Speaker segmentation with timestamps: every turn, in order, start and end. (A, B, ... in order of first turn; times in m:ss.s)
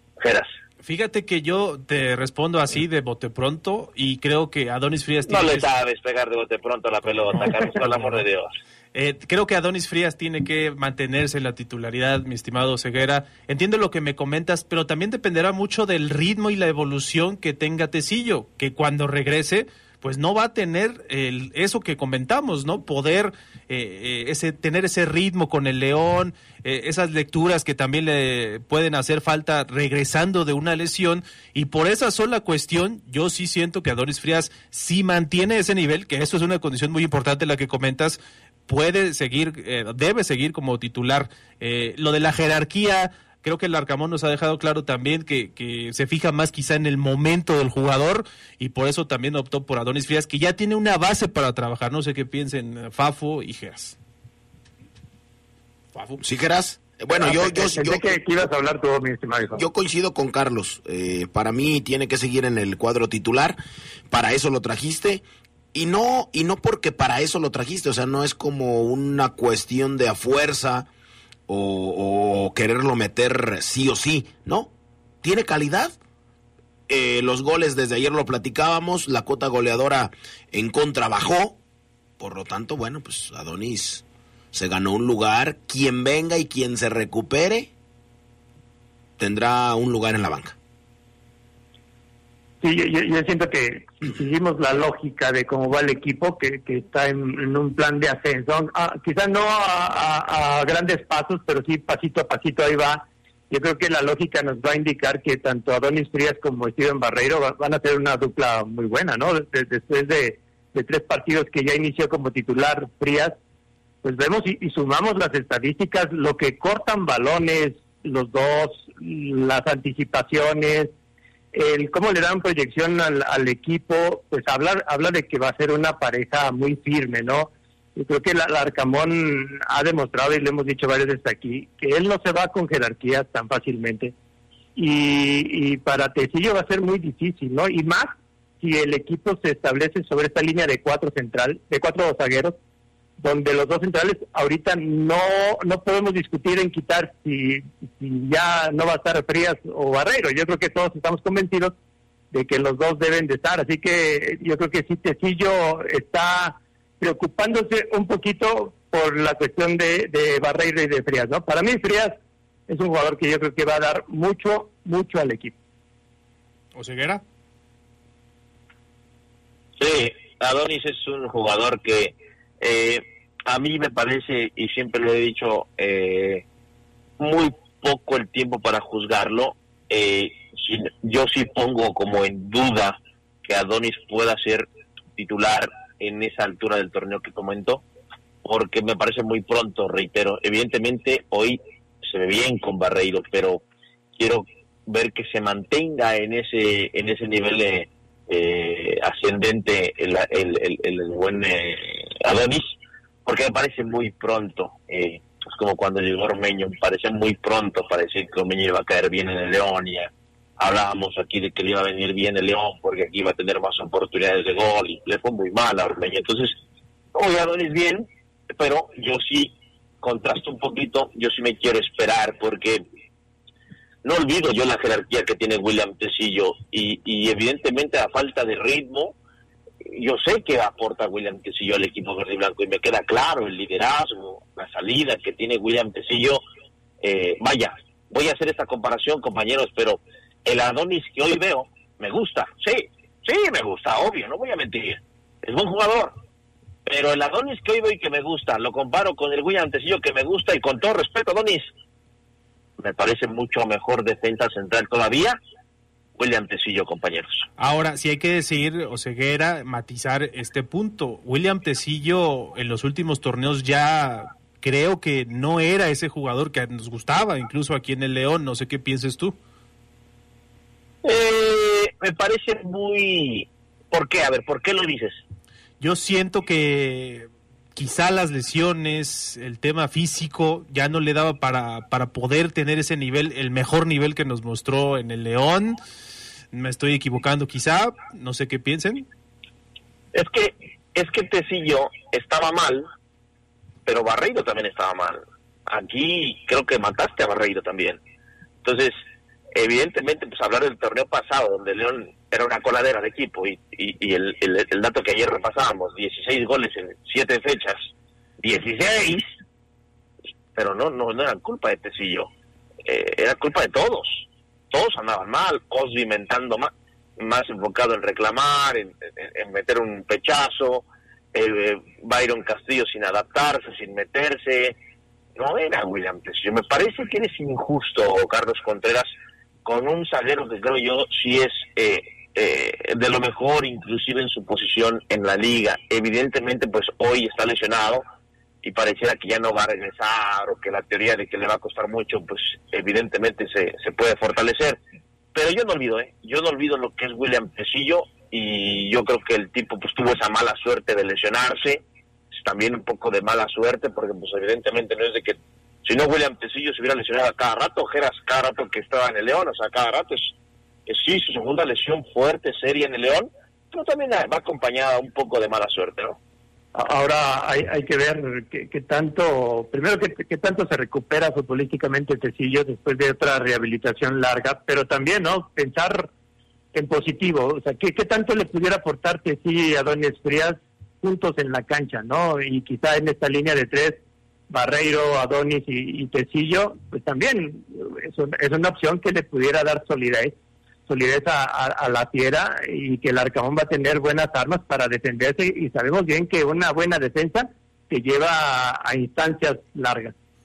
0:00.2-0:00.5 A
0:00.8-0:05.7 B
0:05.3-0:08.5 A
0:08.9-0:54.0 B
0:55.9-0:56.2 B
0:56.2-0:58.1 C
0:57.1-0:59.6 D
0:59.5-1:03.6 C
1:04.1-1:05.2 C
1:05.7-1:10.9 C
1:11.5-1:14.7 C
1:15.2-1:16.0 C
1:16.9-1:21.6 C
1:22.2-1:27.7 C
1:29.2-1:30.6 C
1:32.6-1:53.4 D
1:54.0-2:00.9 D
2:01.5-2:14.1 D
2:14.8-2:22.6 D
2:23.2-2:31.7 D
2:32.3-2:45.6 D
2:46.7-2:47.2 B
2:49.8-2:56.4 A
2:57.2-3:07.8 A
3:08.4-3:13.6 A
3:14.2-3:22.7 A
3:23.2-3:36.6 A
3:37.1-3:42.8 A
3:44.0-3:49.2 A
3:49.9-3:56.4 A
3:57.0-4:06.1 A
4:06.8-4:11.7 A
4:12.8-4:15.4 A
4:16.2-4:17.4 A
4:17.6-4:29.4 B
4:31.0-4:35.2 A
4:35.8-4:45.8 B
4:46.5-4:49.1 B
4:50.1-4:52.9 A
4:53.8-4:58.0 A
4:58.6-4:59.0 A
4:59.5-5:07.9 A
5:08.4-5:09.3 A
5:10.5-5:12.3 A
5:12.8-5:24.8 A
5:25.4-5:29.1 A
5:29.6-5:38.0 A
5:38.6-5:44.8 A
5:45.3-5:51.8 A
5:52.3-6:00.3 A
6:00.9-6:06.2 A
6:06.7-6:16.1 D
6:16.7-6:30.4 D
6:30.9-6:40.1 D